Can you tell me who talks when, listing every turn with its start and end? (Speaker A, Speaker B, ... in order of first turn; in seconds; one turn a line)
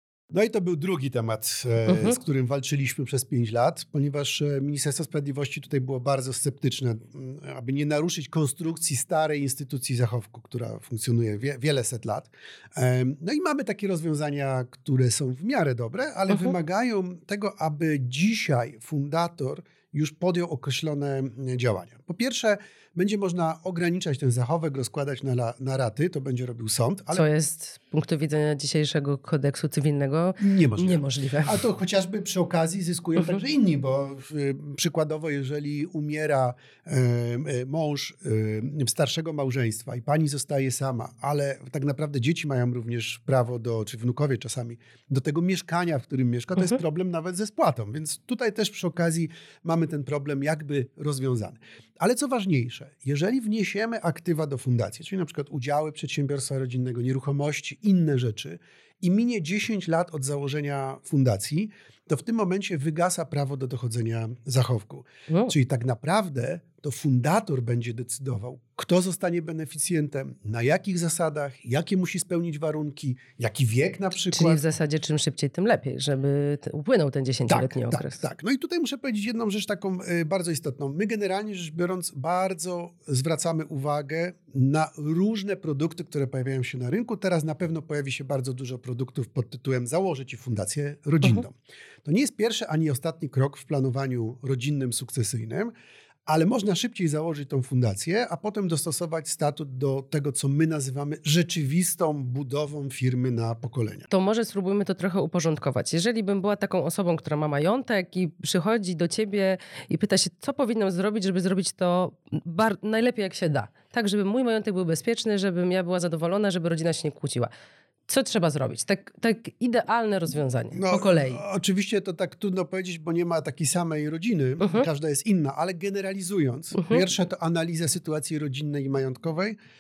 Speaker A: 0.3-27.3
Speaker B: 1.9-2.2
Speaker B: 27.1-31.6
Speaker A: 30.4-74.6
Speaker B: 33.2-33.4
Speaker B: 65.3-65.5
Speaker B: 74.3-78.2
Speaker A: 77.5-95.7
Speaker A: 96.3-104.1
Speaker B: 104.1-117.5
Speaker B: 118.1-121.4
Speaker A: 120.7-129.6
Speaker B: 124.6-124.9
Speaker B: 126.8-127.0